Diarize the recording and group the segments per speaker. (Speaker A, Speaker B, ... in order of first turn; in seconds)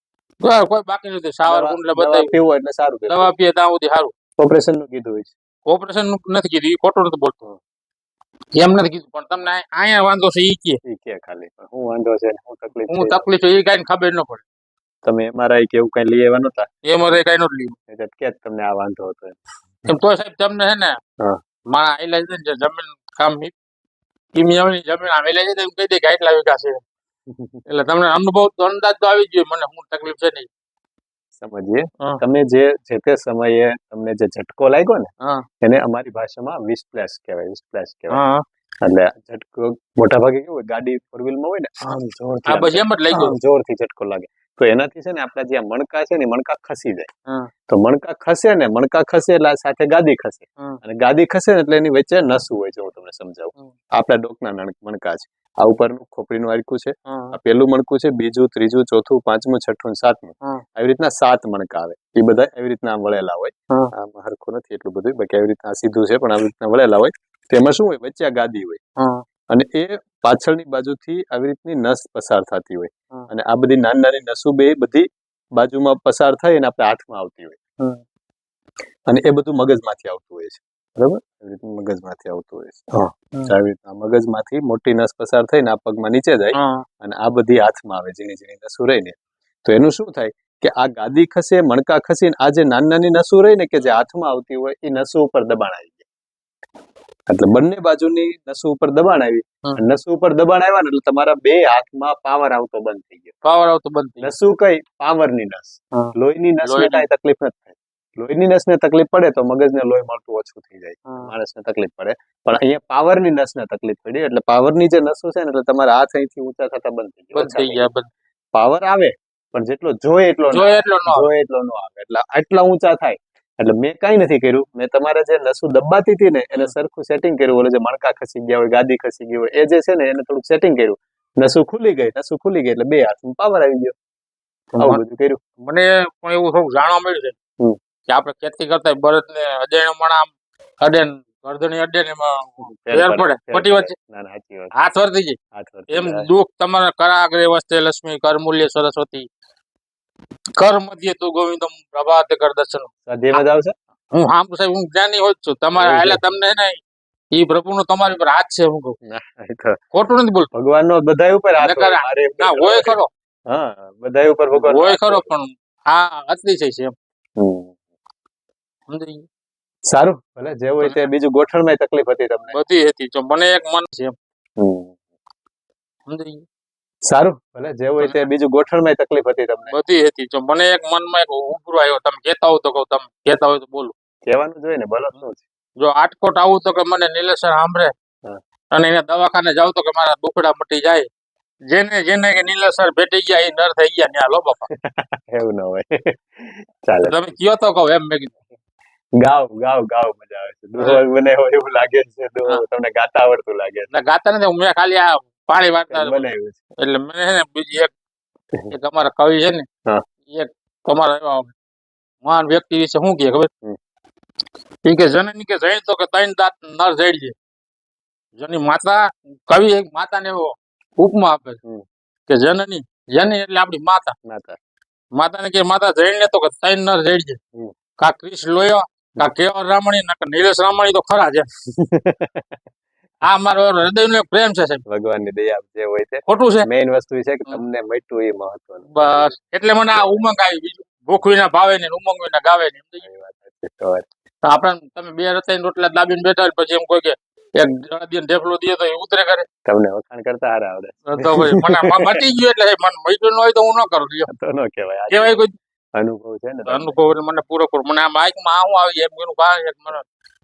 Speaker A: 0.4-2.3, 3.1-4.1, 5.7-7.4, 8.6-10.8, 12.9-14.4, 16.8-17.8, 19.9-21.0, 21.7-23.5, 24.4-26.8, 27.7-30.5, 38.1-38.4, 42.5-43.4, 57.1-57.4, 69.0-69.2, 86.5-86.8, 103.4-104.3, 105.9-107.1, 111.1-111.3, 117.3-118.1, 120.5-121.3, 134.7-135.0, 135.6-137.4, 138.1-140.3, 140.8-143.9, 144.8-145.4, 145.9-149.3, 150.6-153.4, 154.1-156.8, 157.3-158.9, 159.9-160.5, 161.6-163.1, 164.5-166.9, 168.9-169.2, 172.5-174.2, 176.1-176.4, 178.0-178.2, 179.7-183.9, 185.8-187.9, 188.7-191.1, 191.7-194.7, 197.0-198.4, 203.9-206.2, 206.8-207.9, 208.7-209.7, 210.3-211.5, 212.2-213.5, 214.8-217.3, 218.4-221.6, 222.3-224.2, 225.2-227.4, 228.0-231.5, 233.2-234.8, 236.3-236.7, 238.9-243.1, 244.4-249.5, 251.1-254.3, 255.1-255.5, 256.7-260.0
Speaker B: 1.5-3.3, 4.4-5.3, 10.8-13.3, 15.0-16.7, 17.9-19.9, 27.3-27.6, 31.4-35.1, 35.6-38.2, 38.8-47.1, 47.7-68.8, 69.5-77.6, 79.1-96.1, 97.3-103.4, 104.2-117.9, 118.5-133.9, 134.8-135.4, 142.7-144.7, 145.5-146.3, 153.1-153.7, 155.8-156.2, 159.0-159.8, 160.5-163.0, 163.5-165.3, 167.4-167.8, 169.9-172.6, 174.6-175.0, 177.1-179.8, 184.3-185.4, 194.7-197.3, 199.2-203.9, 205.9-206.6, 224.3-224.6, 231.8-232.6, 234.9-239.4, 239.9-240.2, 243.0-244.1, 249.7-252.2, 254.3-255.4, 255.9-257.0